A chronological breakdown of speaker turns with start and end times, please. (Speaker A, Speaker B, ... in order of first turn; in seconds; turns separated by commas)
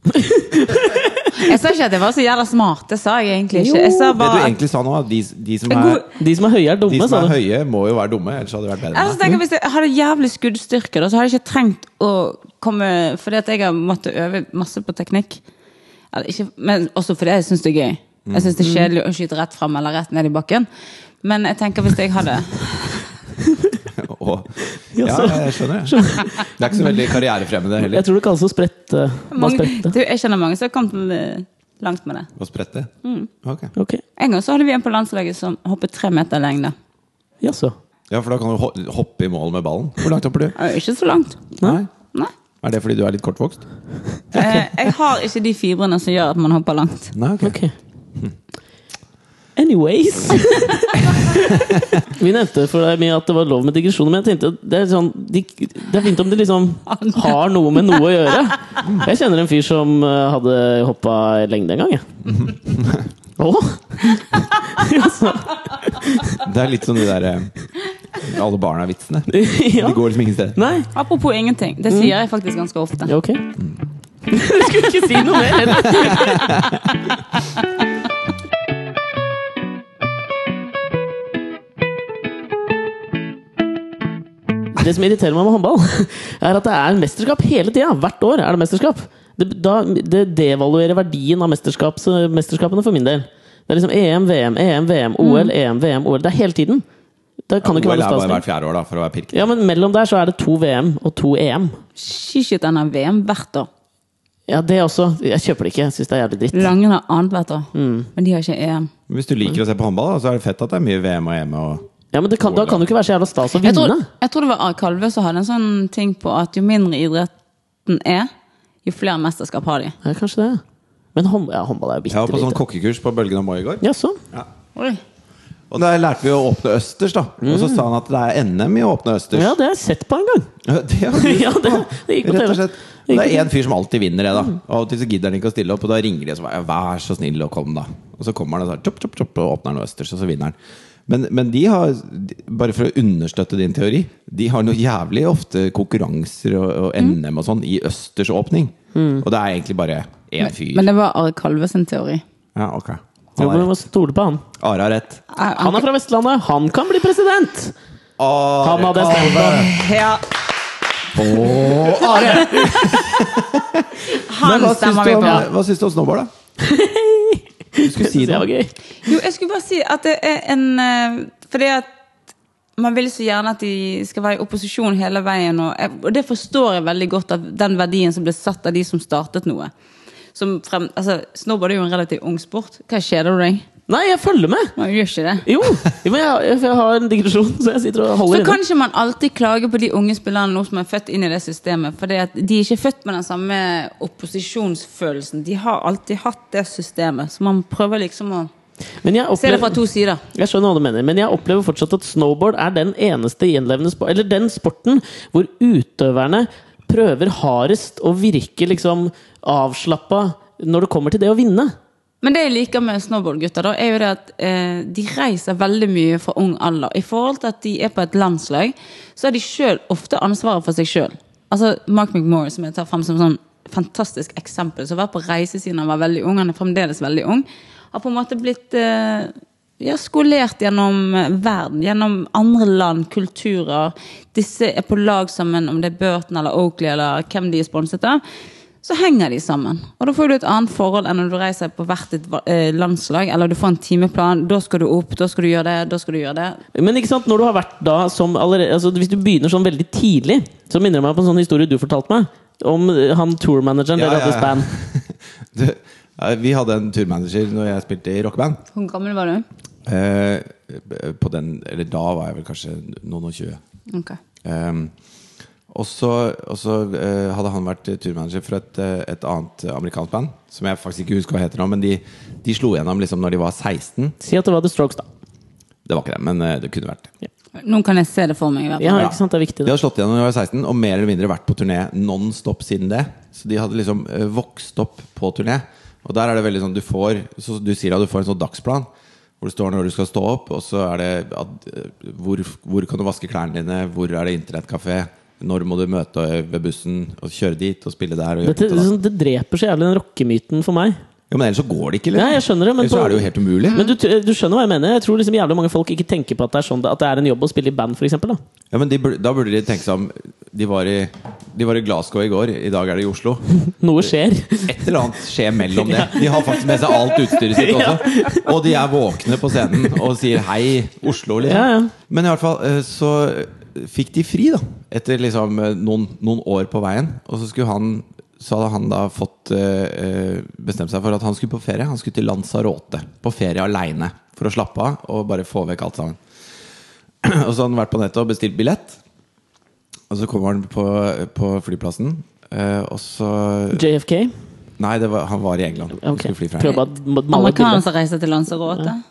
Speaker A: 0.2-1.3, Speaker B: 1.3-4.5, Speaker A: 3.5-4.1, Speaker C: 4.1-6.0, Speaker B: 5.7-6.1, Speaker A: 6.2-7.3, Speaker C: 6.9-9.2, Speaker B: 8.9-15.4, Speaker B: 16.1-20.7, Speaker C: 18.2-18.5, Speaker A: 18.6-18.9, Speaker B: 21.2-23.1, Speaker A: 23.5-23.8, Speaker C: 23.9-28.1, Speaker A: 24.9-27.0, Speaker A: 27.8-29.9, Speaker B: 29.3-32.3, Speaker C: 32.4-32.9, Speaker B: 33.0-33.3, Speaker C: 33.4-33.7, Speaker A: 33.8-34.0, Speaker B: 34.2-36.7, Speaker A: 37.4-37.7, Speaker C: 38.1-40.5, Speaker B: 40.5-41.5, Speaker C: 41.6-41.9, Speaker C: 42.6-43.6, Speaker B: 44.3-47.1, Speaker C: 44.3-44.6, Speaker C: 47.1-47.6, Speaker A: 47.4-47.7, Speaker A: 49.5-62.0, Speaker C: 51.7-52.0, Speaker B: 56.9-58.0, Speaker C: 62.3-63.0, Speaker A: 63.4-66.4, Speaker C: 66.4-67.5, Speaker C: 68.2-70.6, Speaker A: 69.3-70.0, Speaker A: 70.5-70.9, Speaker B: 70.9-73.1, Speaker A: 73.1-73.4, Speaker A: 74.3-76.7, Speaker C: 75.8-76.8, Speaker A: 84.8-96.8, Speaker B: 95.2-95.5, Speaker A: 97.5-98.4, Speaker C: 97.6-99.5, Speaker A: 99.3-101.8, Speaker B: 102.0-103.7, Speaker A: 104.5-106.7, Speaker B: 106.5-108.9, Speaker A: 107.7-108.1, Speaker C: 109.1-111.8, Speaker A: 112.1-114.1, Speaker C: 112.4-112.8, Speaker B: 113.6-117.3, Speaker B: 117.8-118.3, Speaker B: 118.8-120.0, Speaker A: 120.0-120.6, Speaker A: 121.1-122.6, Speaker C: 122.1-124.5, Speaker A: 123.8-124.2, Speaker C: 125.7-129.5, Speaker A: 127.4-127.8, Speaker A: 129.3-130.5, Speaker C: 130.6-140.5, Speaker A: 131.2-133.5, Speaker C: 141.1-150.9, Speaker A: 148.9-149.2, Speaker B: 150.4-152.2, Speaker C: 152.5-153.7, Speaker A: 153.4-154.4, Speaker C: 154.6-155.2, Speaker B: 155.3-155.8, Speaker A: 155.6-157.7, Speaker C: 158.2-159.7, Speaker A: 158.6-159.7, Speaker B: 159.3-160.2, Speaker C: 161.1-166.3, Speaker B: 162.3-162.8, Speaker B: 164.1-165.5, Speaker A: 166.6-168.7, Speaker C: 167.8-168.5, Speaker B: 169.0-171.9, Speaker B: 172.8-179.7, Speaker B: 180.3-183.7, Speaker A: 183.9-184.7, Speaker B: 184.8-185.5, Speaker A: 185.4-188.6, Speaker B: 188.2-198.5, Speaker A: 199.0-199.8, Speaker B: 199.4-200.2, Speaker A: 200.3-211.7, Speaker B: 212.2-238.2, Speaker B: 238.8-246.6, Speaker A: 246.7-254.7, Speaker C: 253.9-258.6, Speaker B: 258.7-259.4, Speaker C: 259.9-263.6, Speaker B: 263.9-264.2, Speaker C: 264.4-264.9, Speaker C: 265.7-274.1, Speaker A: 274.2-275.1, Speaker C: 275.9-277.1, Speaker B: 277.6-279.1, Speaker A: 278.8-279.7, Speaker C: 278.9-288.9, Speaker C: 289.4-298.9, Speaker A: 298.4-301.0, Speaker C: 301.3-303.8, Speaker A: 302.1-308.4, Speaker C: 308.7-313.5, Speaker A: 313.8-314.8, Speaker C: 314.6-336.2, Speaker A: 315.7-318.6, Speaker A: 321.4-321.9, Speaker C: 337.2-339.0, Speaker C: 340.1-343.8, Speaker A: 343.7-344.3, Speaker C: 344.8-346.8, Speaker A: 346.0-347.8, Speaker B: 346.6-349.0